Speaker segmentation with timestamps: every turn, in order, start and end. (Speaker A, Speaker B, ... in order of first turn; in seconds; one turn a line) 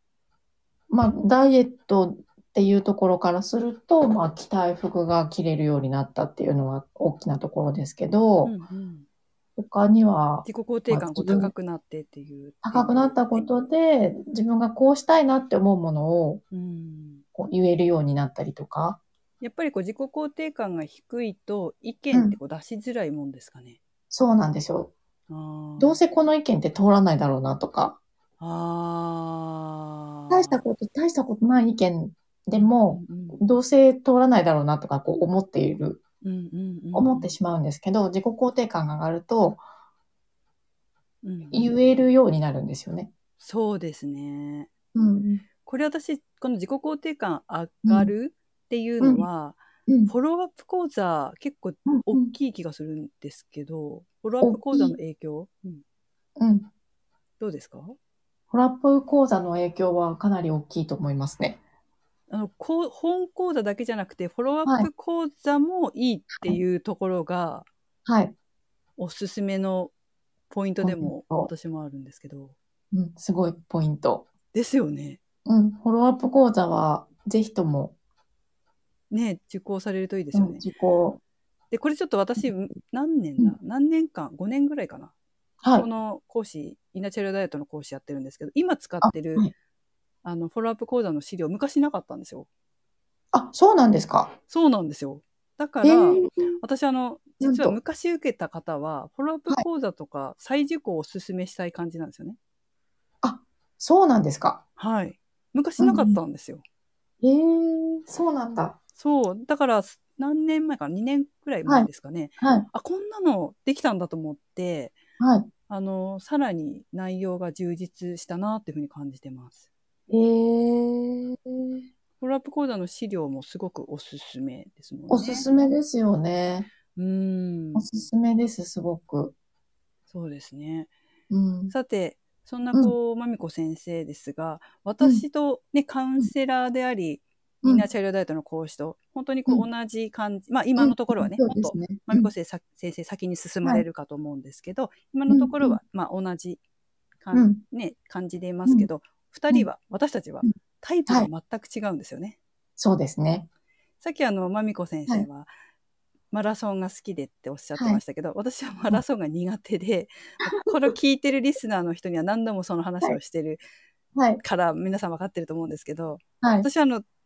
Speaker A: 0.9-8.6
Speaker B: 8.4-9.1
Speaker A: 9.6-11.5
Speaker B: 10.4-13.5
Speaker A: 12.6-16.4
Speaker B: 16.5-17.2
Speaker A: 17.3-19.0
Speaker B: 19.4-23.8
Speaker A: 24.1-24.9
Speaker B: 25.3-26.0
Speaker A: 25.8-28.0
Speaker B: 28.4-30.6
Speaker A: 30.3-36.0
Speaker B: 32.6-33.4
Speaker B: 36.2-37.3
Speaker A: 36.9-39.6
Speaker B: 41.2-41.7
Speaker A: 41.5-43.1
Speaker B: 43.4-44.7
Speaker A: 44.9-45.4
Speaker B: 45.6-55.8
Speaker A: 47.8-48.1
Speaker A: 49.9-50.1
Speaker A: 51.9-52.3
Speaker A: 54.4-55.0
Speaker A: 56.4-56.7
Speaker B: 57.4-58.0
Speaker A: 58.5-61.6
Speaker B: 62.3-67.7
Speaker A: 68.0-68.3
Speaker B: 69.0-69.9
Speaker B: 70.5-72.5
Speaker A: 70.8-71.5
Speaker A: 72.9-74.3
Speaker B: 74.5-75.2
Speaker A: 75.5-77.9
Speaker B: 79.1-80.6
Speaker A: 80.3-81.2
Speaker B: 81.7-85.1
Speaker A: 85.6-85.9
Speaker B: 85.7-89.5
Speaker A: 89.0-89.5
Speaker B: 90.2-92.5
Speaker A: 93.3-94.3
Speaker B: 94.5-102.4
Speaker A: 95.8-96.5
Speaker A: 97.4-97.8
Speaker A: 103.2-104.6
Speaker B: 104.8-106.6
Speaker A: 105.8-106.2
Speaker A: 107.2-108.8
Speaker B: 109.0-114.9
Speaker A: 112.4-112.7
Speaker A: 115.2-115.5
Speaker B: 115.7-119.6
Speaker A: 120.1-121.8
Speaker B: 122.2-125.5
Speaker A: 125.1-126.7
Speaker B: 126.9-127.9
Speaker A: 127.7-129.3
Speaker B: 130.1-130.9
Speaker A: 131.3-131.7
Speaker B: 131.7-146.6
Speaker A: 140.8-142.3
Speaker A: 145.3-145.8
Speaker B: 147.2-152.4
Speaker A: 147.3-147.6
Speaker A: 152.8-153.5
Speaker B: 154.0-155.5
Speaker B: 156.3-163.6
Speaker A: 157.8-158.0
Speaker A: 164.1-164.4
Speaker B: 164.4-167.0
Speaker A: 166.4-166.7